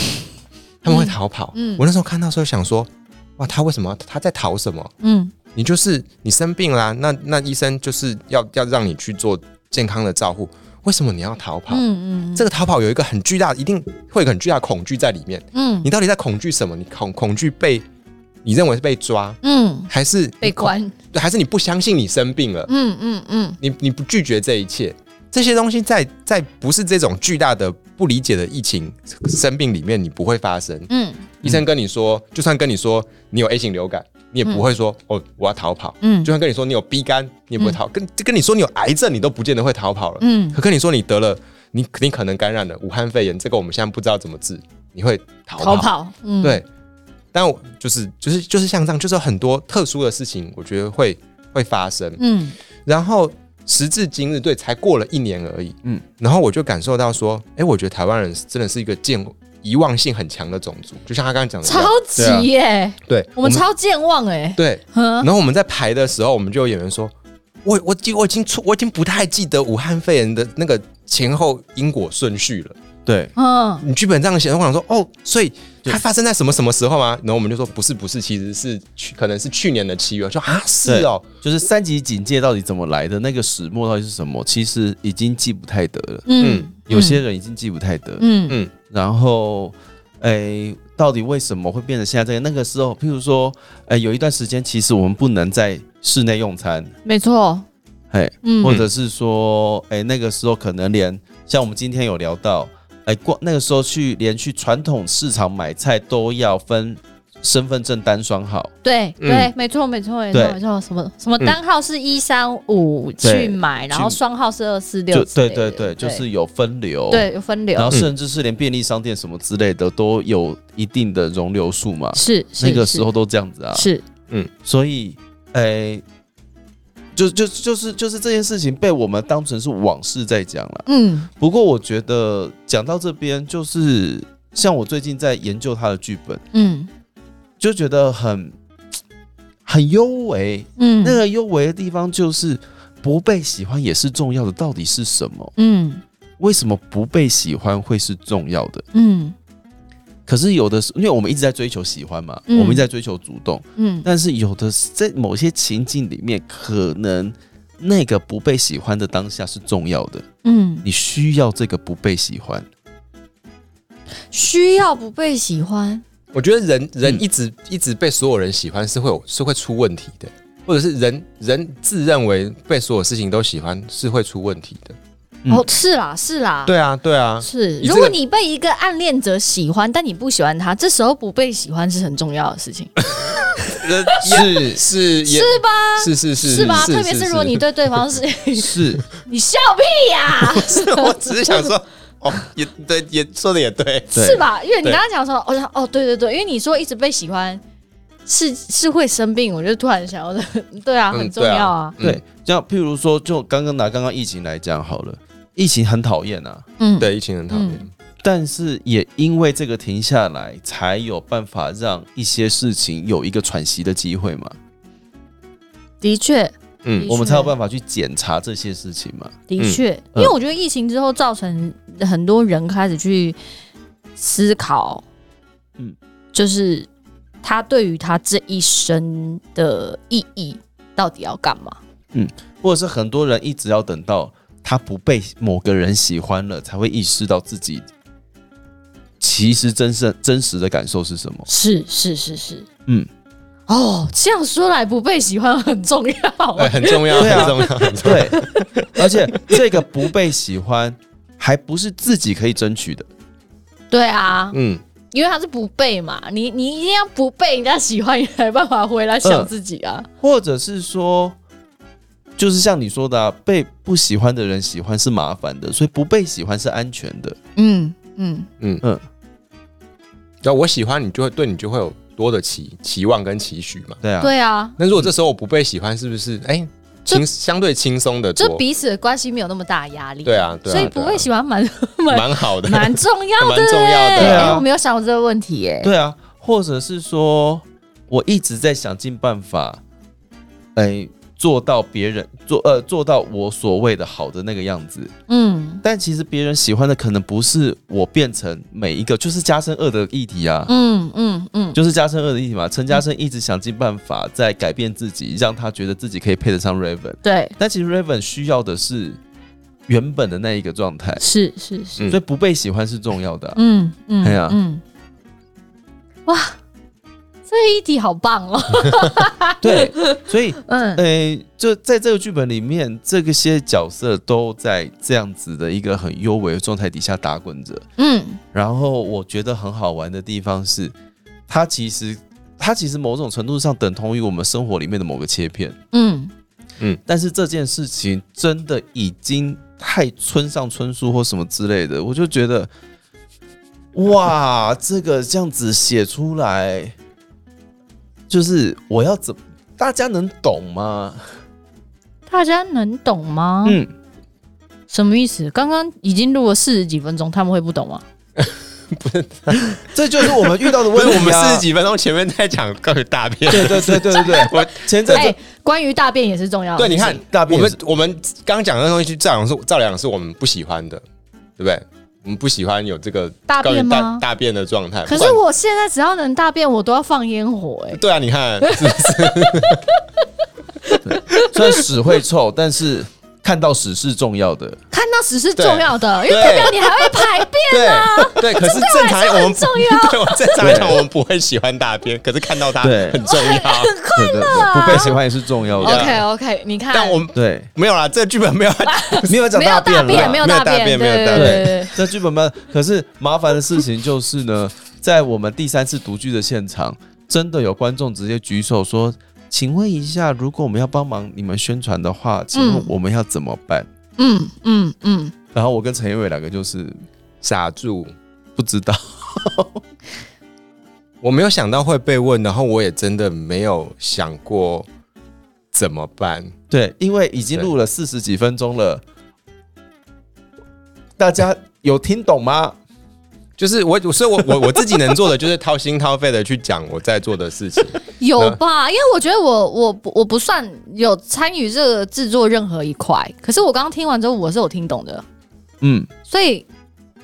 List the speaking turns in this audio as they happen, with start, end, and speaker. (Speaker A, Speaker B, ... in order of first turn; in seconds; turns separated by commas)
Speaker A: 0.8-4.9, Speaker B: 0.9-1.8, Speaker B: 5.0-5.3, Speaker A: 5.5-11.8, Speaker B: 11.7-12.4, Speaker A: 12.3-17.8, Speaker B: 15.5-15.9, Speaker A: 18.4-22.7, Speaker B: 19.4-19.9, Speaker B: 20.4-20.9, Speaker B: 22.7-23.6, Speaker A: 23.6-30.9, Speaker B: 30.9-31.2, Speaker A: 31.4-46.6, Speaker B: 36.0-36.3, Speaker B: 40.2-40.6, Speaker B: 45.6-46.6, Speaker A: 47.3-52.2, Speaker B: 52.2-52.5, Speaker A: 52.8-61.9, Speaker B: 61.6-65.3, Speaker C: 62.1-62.5, Speaker A: 63.0-63.6, Speaker A: 64.5-67.1, Speaker A: 67.6-72.8, Speaker C: 73.0-73.3, Speaker B: 73.3-73.8, Speaker A: 73.8-81.3, Speaker C: 80.8-86.3, Speaker B: 86.3-87.2, Speaker A: 86.4-86.7, Speaker C: 86.8-88.2, Speaker B: 88.2-88.6, Speaker C: 88.8-96.9, Speaker B: 97.0-97.6, Speaker C: 98.1-108.7, Speaker B: 98.4-98.7, Speaker B: 108.8-116.2, Speaker A: 109.2-109.5, Speaker C: 110.3-110.6, Speaker C: 113.2-114.2, Speaker C: 115.1-123.9, Speaker B: 117.1-118.0, Speaker B: 122.1-123.0, Speaker B: 123.7-124.0, Speaker C: 124.6-126.0, Speaker C: 127.1-130.8, Speaker B: 130.9-131.3, Speaker C: 131.4-136.4, Speaker B: 136.5-136.9, Speaker C: 137.6-138.5, Speaker C: 139.7-145.5, Speaker B: 140.8-141.2, Speaker B: 145.6-146.0, Speaker C: 146.4-148.8, Speaker B: 148.9-149.3, Speaker C: 150.3-160.3, Speaker B: 152.5-152.8, Speaker B: 153.8-154.1, Speaker B: 160.4-160.8, Speaker C: 160.8-162.7, Speaker B: 164.3-166.0, Speaker A: 166.3-175.0, Speaker B: 175.5-176.7, Speaker A: 176.7-178.2, Speaker B: 177.4-184.1, Speaker A: 183.8-187.6, Speaker C: 184.2-184.8, Speaker B: 185.2-191.6, Speaker C: 186.5-186.9, Speaker C: 188.6-189.0, Speaker A: 190.4-194.2, Speaker C: 194.1-194.4, Speaker B: 194.1-197.6, Speaker B: 198.2-201.9, Speaker A: 201.1-202.2, Speaker C: 202.0-206.6, Speaker B: 206.8-207.8, Speaker A: 207.0-207.9, Speaker C: 208.2-214.6, Speaker B: 216.0-217.5, Speaker C: 217.1-219.4, Speaker B: 219.5-223.4, Speaker B: 224.2-225.0, Speaker B: 226.3-226.9, Speaker B: 227.4-231.8, Speaker C: 232.1-237.9, Speaker C: 239.2-241.5, Speaker B: 241.5-242.7, Speaker B: 243.7-248.6, Speaker A: 246.6-249.0, Speaker C: 247.2-253.1, Speaker B: 253.9-254.6, Speaker A: 254.5-254.8, Speaker B: 255.1-260.1, Speaker C: 259.2-259.5, Speaker C: 260.2-261.4, Speaker C: 262.4-267.4, Speaker B: 267.6-268.5, Speaker A: 270.4-274.0, Speaker C: 274.0-274.3, Speaker B: 274.2-274.7, Speaker A: 274.8-278.6, Speaker B: 278.4-285.9, Speaker A: 280.2-281.3, Speaker A: 282.1-284.6, Speaker C: 284.2-284.6, Speaker C: 285.8-289.8, Speaker C: 290.7-295.1, Speaker B: 295.3-295.8, Speaker C: 295.8-300.7, Speaker B: 300.7-301.8, Speaker C: 301.7-309.2, Speaker B: 307.2-307.5, Speaker C: 309.9-311.2, Speaker B: 311.2-312.1, Speaker C: 312.1-313.6, Speaker B: 313.6-314.8, Speaker C: 314.2-314.6, Speaker B: 316.3-316.6, Speaker B: 317.5-321.0, Speaker C: 319.6-327.9, Speaker B: 328.0-328.4, Speaker C: 328.5-330.9, Speaker C: 331.5-335.8, Speaker B: 335.9-336.3, Speaker C: 337.1-342.7, Speaker C: 343.9-346.9, Speaker C: 348.3-351.2, Speaker B: 352.3-353.8, Speaker C: 353.6-353.9, Speaker B: 354.9-358.0, Speaker A: 358.4-365.3, Speaker C: 359.9-361.6, Speaker C: 363.5-365.3, Speaker B: 365.1-367.2, Speaker A: 366.8-371.0, Speaker C: 367.1-367.8, Speaker A: 371.6-375.4, Speaker B: 373.5-374.2, Speaker B: 375.1-378.0, Speaker A: 377.9-379.9, Speaker B: 378.6-380.2, Speaker B: 380.8-381.8, Speaker C: 381.0-384.8, Speaker B: 384.9-390.9, Speaker A: 385.6-393.9, Speaker C: 390.6-391.0, Speaker C: 392.8-393.2, Speaker B: 393.2-395.2, Speaker C: 394.1-396.2, Speaker A: 394.9-395.2, Speaker A: 395.8-396.2, Speaker B: 395.8-397.2, Speaker A: 396.9-401.8, Speaker C: 397.3-397.7, Speaker B: 398.9-401.9, Speaker C: 399.3-400.4, Speaker C: 401.3-413.9, Speaker B: 412.5-412.9, Speaker B: 414.2-415.3, Speaker C: 415.5-417.0, Speaker A: 417.4-418.1, Speaker C: 418.6-419.8, Speaker A: 421.2-424.9, Speaker A: 425.7-426.5, Speaker C: 426.7-429.0, Speaker C: 431.2-432.7, Speaker A: 433.6-438.6, Speaker B: 438.2-445.2, Speaker C: 445.8-446.1, Speaker B: 446.3-446.7